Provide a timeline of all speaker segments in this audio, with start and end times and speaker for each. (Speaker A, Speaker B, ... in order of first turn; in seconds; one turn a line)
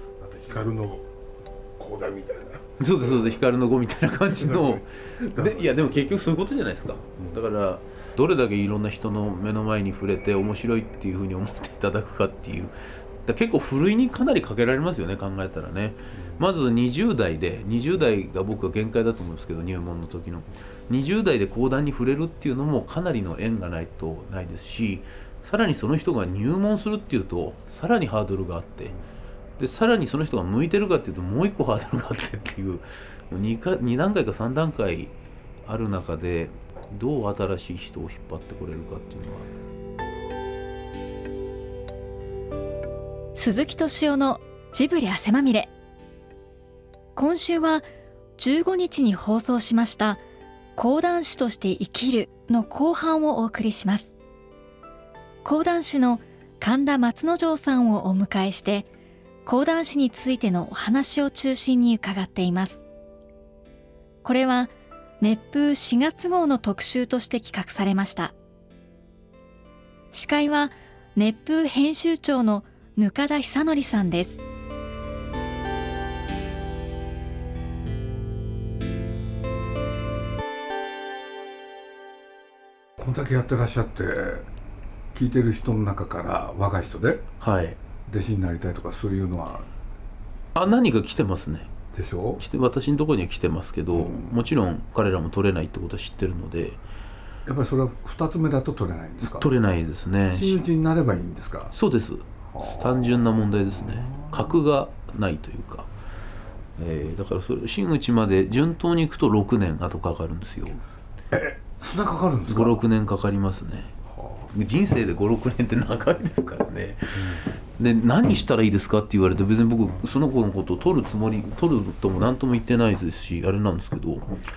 Speaker A: 0.2-1.1
Speaker A: 1.8-3.4
Speaker B: 2.8-4.8
Speaker A: 4.4-6.3
Speaker B: 5.3-12.7
Speaker B: 13.2-28.9
Speaker B: 29.6-35.1
Speaker B: 35.6-39.5
Speaker C: 43.4-45.7
Speaker C: 47.2-47.9
Speaker C: 48.4-50.2
Speaker C: 50.8-54.1
Speaker C: 55.4-58.9
Speaker C: 59.5-62.8
Speaker C: 64.2-68.3
Speaker C: 70.1-74.4
Speaker D: 83.0-84.5
Speaker D: 85.1-87.2
Speaker B: 87.4-87.8
Speaker D: 88.1-89.7
Speaker B: 90.5-91.7
Speaker D: 91.9-92.4
Speaker B: 92.4-96.8
Speaker D: 93.9-94.3
Speaker D: 97.5-99.5
Speaker B: 99.2-100.6
Speaker D: 100.3-101.7
Speaker B: 101.7-105.9
Speaker D: 102.5-104.4
Speaker B: 106.8-110.8
Speaker D: 111.3-112.8
Speaker B: 112.5-114.0
Speaker B: 114.5-124.3